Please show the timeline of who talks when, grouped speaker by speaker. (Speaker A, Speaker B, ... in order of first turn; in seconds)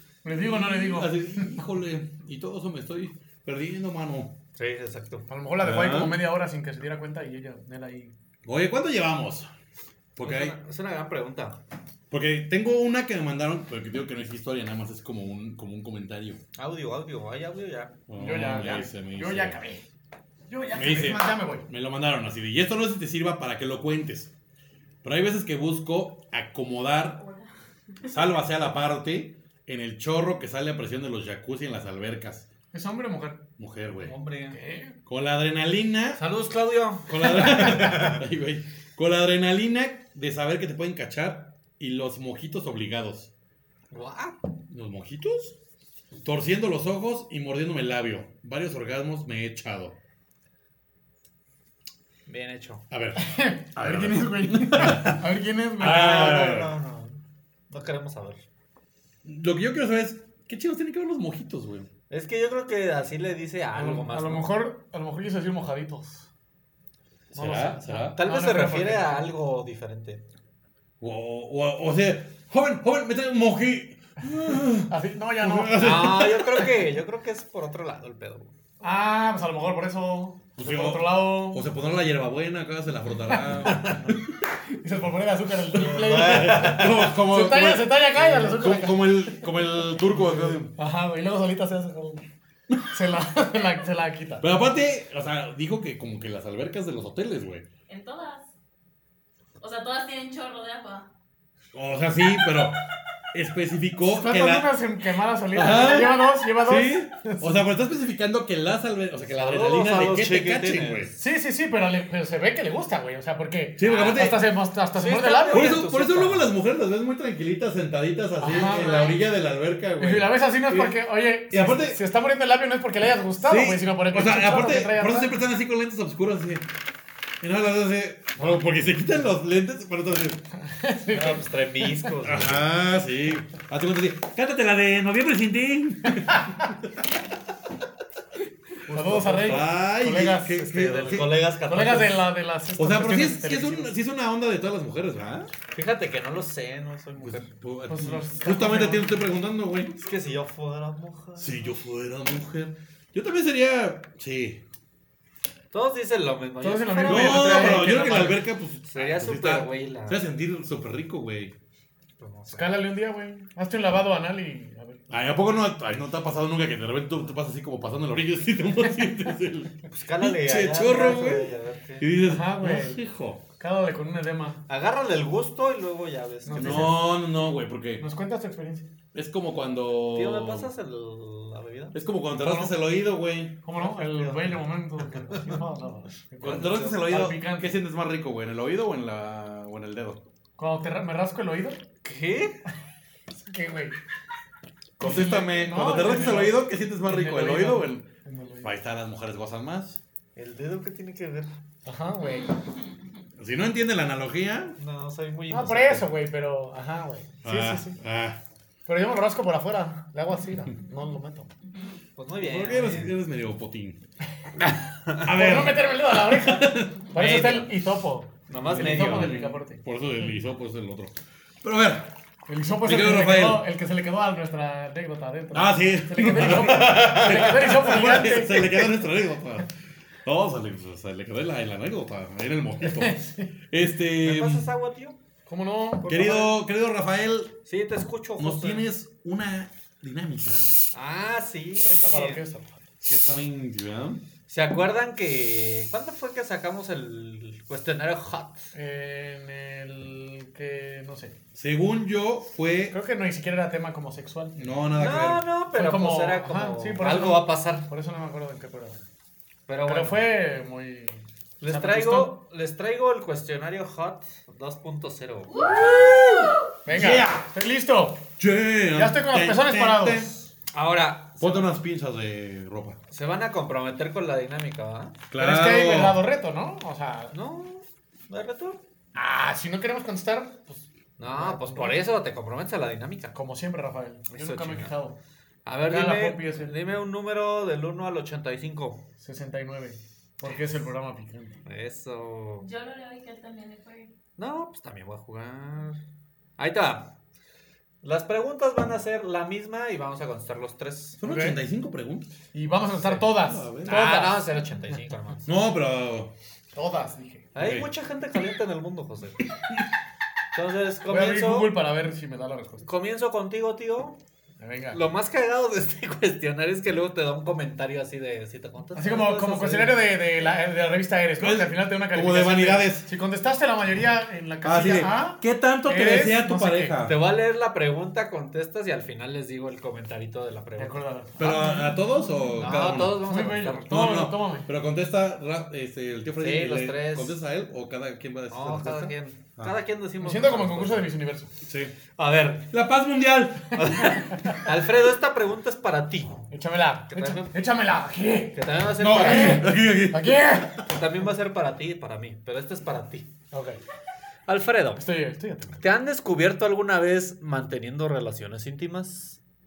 Speaker A: 0.2-1.6, 5.3-8.1, 18.1-19.8, 20.5-21.7, 32.7-33.4, 34.5-35.0, 53.2-56.4, 63.8-66.3, 67.3-69.2, 74.9-76.2, 78.8-81.7, 84.8-92.2, 92.9-94.5, 104.1-107.6, 111.2-115.8, 118.4-119.1, 120.0-125.3, 130.6-132.1, 136.1-136.6, 138.9-143.9, 147.9-149.1, 156.6-158.3, 162.5-165.0, 172.2-173.0, 173.6-174.6, 176.5-177.0, 178.0-178.9, 182.3-182.8, 183.6-187.8, 190.6-191.8, 193.5-194.0, 195.0-198.7, 201.9-202.6, 205.5-208.0, 208.9-211.5, 215.2-219.8, 222.5-228.9, 232.8-233.5, 235.5-236.4, 241.8-242.8, 248.7-251.3, 252.9-254.7, 255.7-259.0, 259.8-262.4, 266.9-268.2, 268.9-270.3, 275.4-277.4, 279.1-282.0, 283.3-285.2, 285.9-286.8, 289.2-291.6, 301.2-301.6, 302.5-304.5, 306.8-307.5, 311.1-312.9, 314.6-315.0, 318.9-327.0, 330.8-332.0, 332.9-334.7, 340.2-341.5, 344.1-344.6, 346.5-350.9, 353.5-353.8, 355.0-355.8
Speaker B: 0.4-4.4, 5.6-6.3, 8.4-9.5, 10.2-10.6, 12.1-16.4, 18.1-19.6, 20.7-24.3, 25.0-27.2, 28.1-32.5, 33.6-34.1, 35.1-36.2, 37.1-43.3, 44.7-45.6, 46.2-50.0, 52.9-55.3, 55.8-56.8, 59.2-61.9, 67.3-68.2, 71.0-76.7, 80.6-84.2, 85.8-90.7, 94.4-97.7, 101.7-102.8, 103.3-104.8, 105.5-111.1, 113.8-114.5, 115.5-122.0, 123.4-126.7, 127.4-130.4, 132.2-136.9, 139.4-141.4, 142.8-145.5, 147.2-150.0, 151.4-154.6, 157.1-161.6, 165.1-173.4, 176.6-178.1, 179.1-180.7, 181.9-183.6, 186.4-190.2, 195.0-198.1, 198.6-200.0, 203.4-204.8, 207.4-208.4, 212.4-214.0, 215.2-217.0, 218.6-222.2, 222.8-223.7, 225.5-229.7, 230.2-234.7, 236.1-237.6, 238.4-240.9, 243.0-244.2, 251.6-253.0, 254.6-255.4, 265.7-267.4, 268.4-270.4, 271.4-273.0, 275.3-276.2, 301.2-302.3, 303.3-304.1, 305.5-306.3, 307.6-307.9, 321.4-323.1, 324.6-327.2, 331.4-333.3, 333.9-339.8, 341.7-342.0, 342.7-344.1, 349.0-350.8
Speaker C: 4.6-5.3, 10.2-11.6, 16.6-18.0, 34.0-34.6, 36.2-38.2, 43.9-44.4, 52.3-52.9, 55.8-57.2, 57.7-58.4, 62.1-64.5, 68.2-70.2, 75.8-78.5, 83.7-84.0, 85.8-87.1, 109.3-111.1, 113.8-114.4, 114.9-116.5, 131.1-132.7, 138.9-139.7, 141.1-142.3, 145.7-147.5, 150.0-151.7, 155.7-160.2, 162.2-162.8, 169.9-172.1, 174.7-177.0, 180.1-182.0, 183.8-185.6, 186.4-187.2, 192.0-192.6, 200.4-201.5, 204.8-206.1, 212.2-213.2, 214.6-215.1, 217.1-217.7, 218.5-219.5, 234.2-235.2, 236.0-236.5, 237.7-238.9, 240.9-242.4, 244.5-248.7, 254.9-257.9, 259.7-260.3, 261.6-265.8, 270.7-271.7, 273.1-275.2, 277.3-278.8, 281.2-283.4, 284.3-284.9, 285.6-289.0, 291.7-292.7, 294.4-296.0, 296.6-297.1, 298.0-301.2, 303.9-305.5, 307.6-309.4, 310.5-311.8, 312.8-314.2, 314.9-320.0, 327.0-331.0, 332.6-334.0, 336.4-337.4, 338.5-341.1, 342.2-342.7, 343.8-346.5, 347.1-347.6, 348.5-349.8, 350.9-353.3, 354.5-355.1, 355.8-359.4
Speaker D: 97.9-98.5, 99.6-101.1, 118.7-119.2, 265.6-266.1, 292.6-294.1